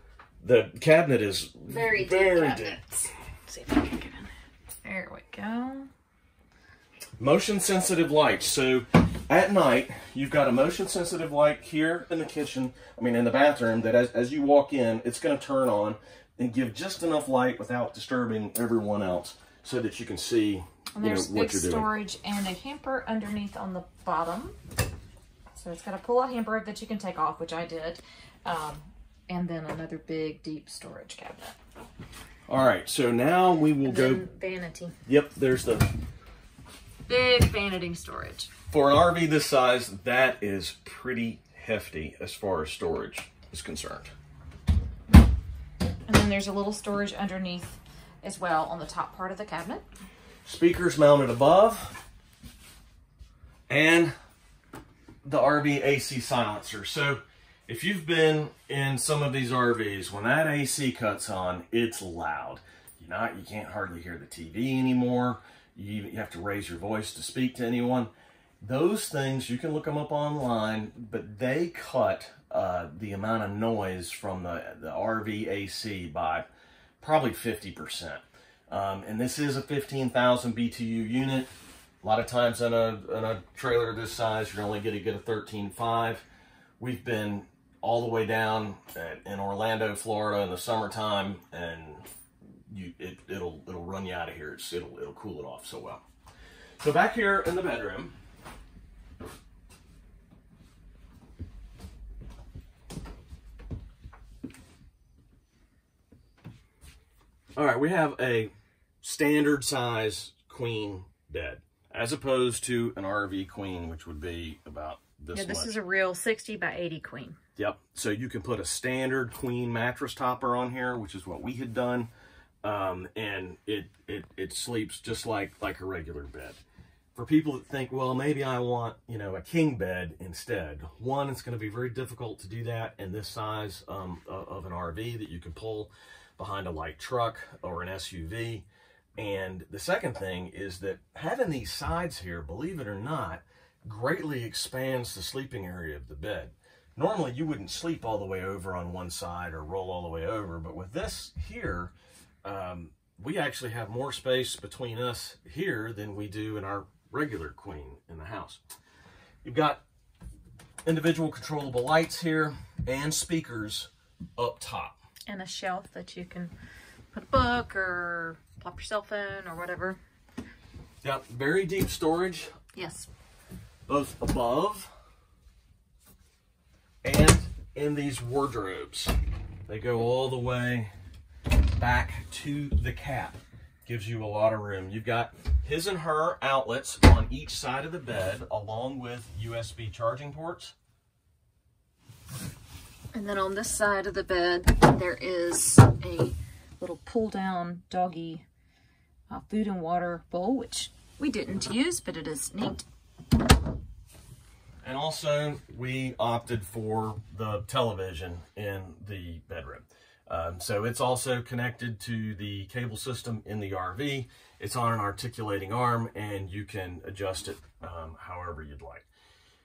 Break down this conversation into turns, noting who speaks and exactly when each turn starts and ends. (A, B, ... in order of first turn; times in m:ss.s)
0:00.4-0:02.8 A
0:01.7-0:05.9 B
0:07.2-0:21.9 A
0:21.0-0:24.6 B
0:25.6-0:31.6 B
0:32.5-0:34.2 A
0:33.8-0:34.9 B
0:35.1-0:35.9 A
0:37.1-0:38.5 B
0:38.7-0:44.1 A
0:46.0-0:49.8 B
0:50.4-0:52.0 A
0:53.7-0:54.1 A
0:55.2-1:08.1 A
1:08.6-1:16.5 A
1:17.0-1:21.5 A
1:22.0-1:26.2 A
1:26.8-1:32.0 A
1:32.7-1:36.0 A
1:36.8-1:38.1 A
1:47.6-1:55.8 A
1:55.3-1:57.4 B
1:57.6-2:02.1 A
2:02.6-2:06.6 A
2:07.1-2:31.9 A
2:32.4-2:38.6 A
2:39.4-2:39.8 A
2:40.8-2:45.0 A
2:45.3-2:46.5 B
2:47.1-2:50.0 B
2:51.0-2:52.6 A
2:52.7-2:53.1 B
2:53.9-2:54.9 A
2:57.0-2:59.1 A
2:59.7-3:00.9 A
3:01.8-3:10.7 A
3:13.1-3:18.4 B
3:19.3-3:22.8 B
3:24.8-3:39.1 A